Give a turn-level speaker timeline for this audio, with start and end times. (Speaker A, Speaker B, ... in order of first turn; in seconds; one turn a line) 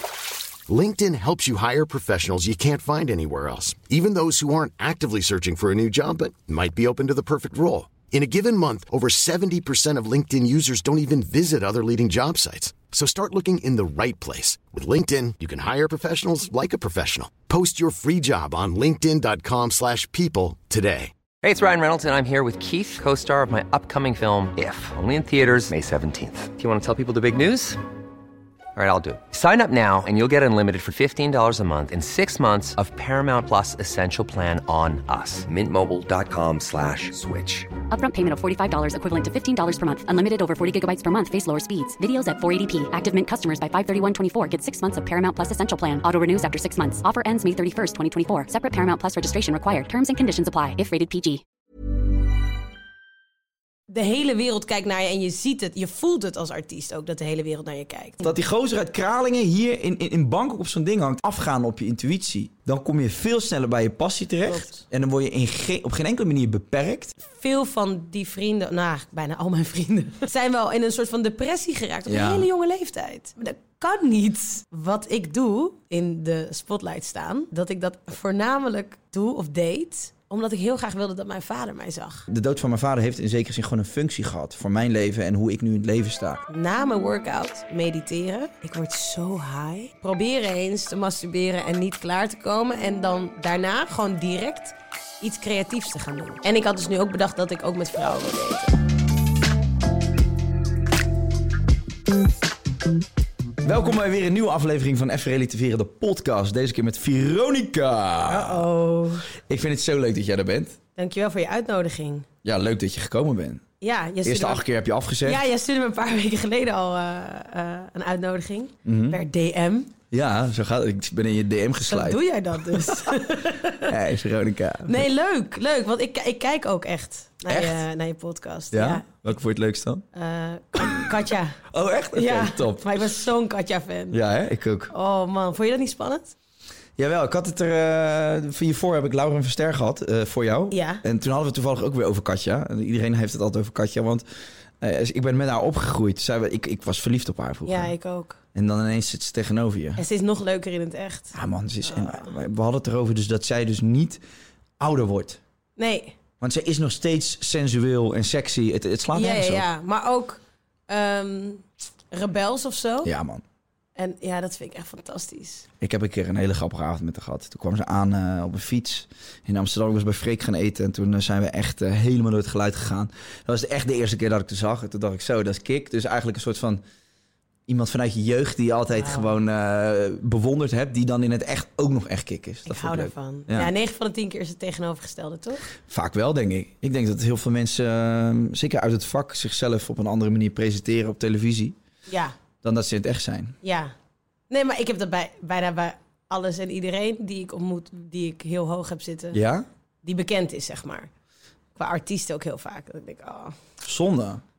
Speaker A: 0.7-21.1
Speaker B: 21.4-27.8
Speaker B: 28.8-37.7
Speaker C: 37.9-51.4
Speaker D: 53.9-58.3
Speaker E: 58.2-67.1
Speaker D: 64.5-64.8
Speaker D: 67.2-82.2
Speaker E: 72.1-72.5
Speaker E: 82.3-86.4
Speaker D: 86.5-98.8
Speaker E: 103.6-108.7
Speaker D: 108.3-109.3
Speaker E: 109.5-110.8
Speaker D: 111.0-112.3
Speaker E: 112.4-113.6
Speaker D: 113.8-114.7
Speaker E: 114.2-115.4
Speaker D: 115.2-119.9
Speaker E: 118.9-119.2
Speaker E: 120.1-123.0
Speaker D: 121.8-124.0
Speaker E: 123.9-125.1
Speaker D: 124.9-129.3
Speaker E: 127.5-127.8
Speaker E: 128.7-130.1
Speaker D: 130.2-131.6
Speaker E: 130.8-131.1
Speaker E: 131.7-133.1
Speaker D: 132.2-134.2
Speaker E: 134.1-134.9
Speaker D: 134.9-136.3
Speaker E: 137.0-144.2
Speaker D: 140.7-141.0
Speaker E: 144.8-147.9
Speaker D: 147.7-148.4
Speaker E: 148.6-150.0
Speaker D: 150.0-151.4
Speaker E: 151.3-154.2
Speaker D: 151.9-152.3
Speaker E: 154.8-155.4
Speaker D: 155.8-156.2
Speaker E: 156.4-159.7
Speaker D: 159.1-163.1
Speaker E: 163.1-163.4
Speaker D: 164.0-165.7
Speaker E: 165.8-176.8
Speaker E: 177.7-183.7
Speaker D: 178.9-179.3
Speaker D: 182.7-185.7
Speaker E: 185.9-191.8
Speaker D: 192.1-192.3
Speaker E: 192.6-193.6
Speaker D: 193.6-193.9
Speaker D: 194.5-199.4
Speaker E: 199.3-199.7
Speaker D: 200.0-201.1
Speaker D: 201.8-203.6
Speaker E: 203.8-204.4